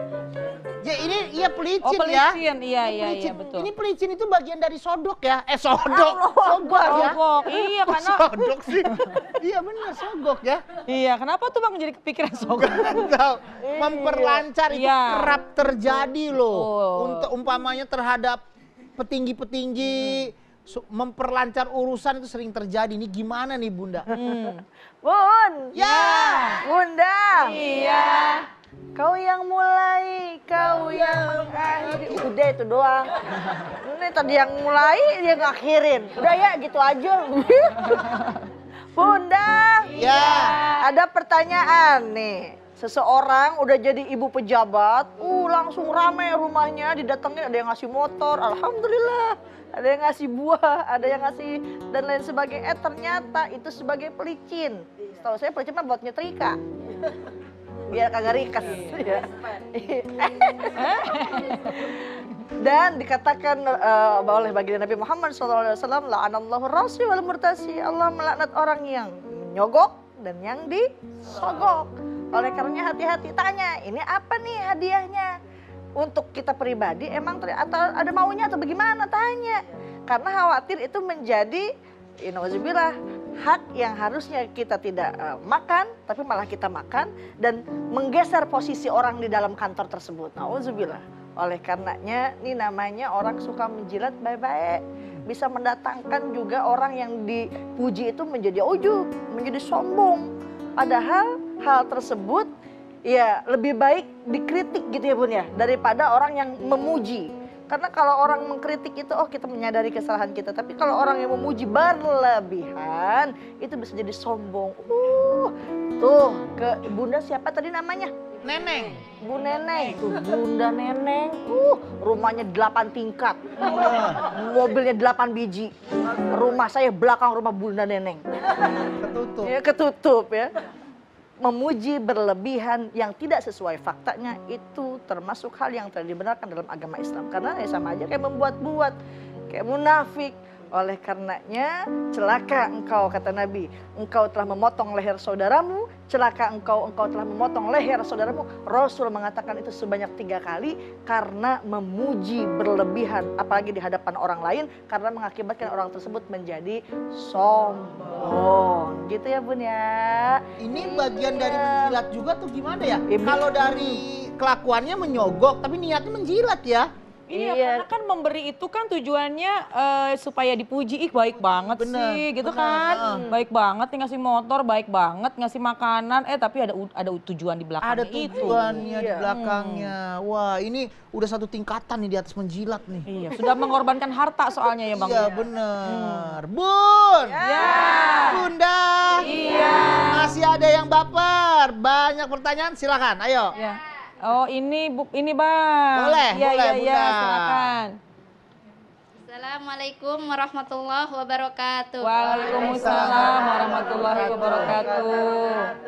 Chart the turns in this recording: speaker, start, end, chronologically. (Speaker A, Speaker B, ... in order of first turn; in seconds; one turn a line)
Speaker A: 0.8-2.4
Speaker B: 1.8-3.7
Speaker A: 2.9-7.2
Speaker C: 5.8-7.2
Speaker B: 6.8-8.3
Speaker A: 7.8-10.6
Speaker B: 10.8-13.1
Speaker A: 12.6-18.4
Speaker C: 13.6-14.4
Speaker B: 14.7-15.3
Speaker B: 16.4-17.3
Speaker A: 19.0-24.1
Speaker B: 24.1-24.6
Speaker C: 24.1-24.5
Speaker C: 25.0-26.0
Speaker A: 25.7-26.5
Speaker B: 25.8-26.6
Speaker C: 26.6-27.6
Speaker B: 27.4-28.4
Speaker C: 28.9-33.1
Speaker A: 30.7-32.2
Speaker C: 33.7-38.3
Speaker C: 38.9-56.6
Speaker A: 40.0-40.6
Speaker C: 57.9-62.0
Speaker B: 60.8-61.8
Speaker C: 62.6-75.3
Speaker C: 76.0-81.7
Speaker C: 82.2-100.2
Speaker C: 100.8-102.5
Speaker C: 103.0-118.1
Speaker A: 118.4-119.0
Speaker C: 119.2-125.7
Speaker A: 123.6-124.2
Speaker C: 126.3-128.2
Speaker A: 129.0-129.5
Speaker C: 129.4-130.5
Speaker C: 131.4-138.9
Speaker C: 139.5-162.0
Speaker A: 160.6-166.9
Speaker C: 163.1-164.0
Speaker B: 167.3-179.9
Speaker C: 167.3-167.8
Speaker A: 171.8-173.2
Speaker C: 173.0-173.4
Speaker A: 177.8-183.1
Speaker C: 178.4-179.3
Speaker B: 183.1-185.3
Speaker A: 184.9-187.3
Speaker B: 185.9-186.3
Speaker C: 187.2-188.3
Speaker B: 187.4-188.5
Speaker A: 188.3-189.3
Speaker B: 189.2-190.3
Speaker A: 189.9-193.5
Speaker B: 193.6-198.0
Speaker A: 195.9-197.7
Speaker D: 199.3-202.4
Speaker B: 202.0-205.7
Speaker A: 202.4-204.8
Speaker C: 202.4-205.1